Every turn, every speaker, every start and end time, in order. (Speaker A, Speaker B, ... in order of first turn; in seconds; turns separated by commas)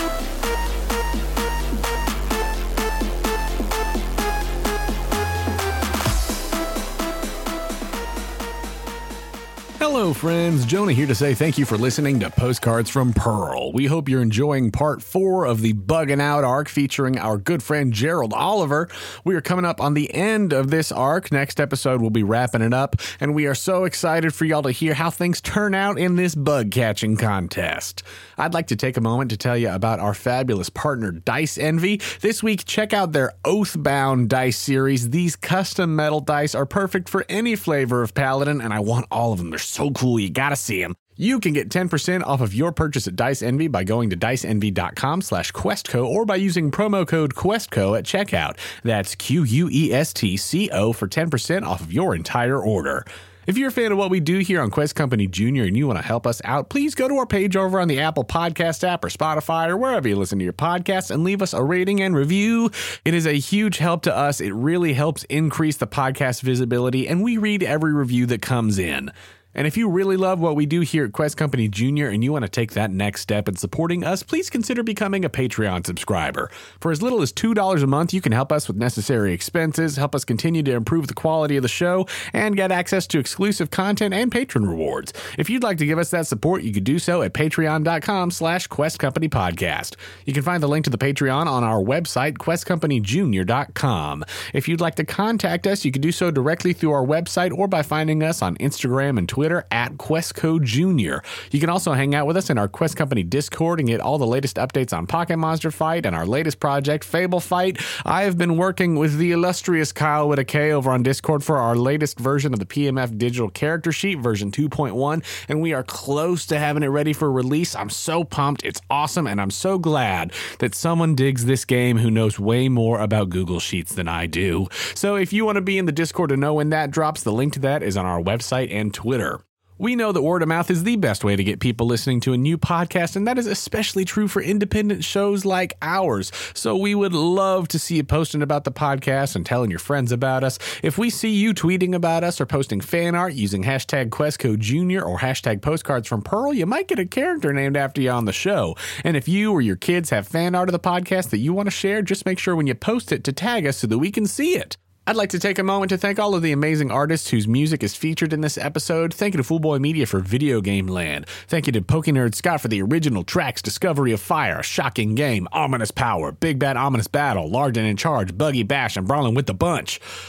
Speaker A: 9.8-170.0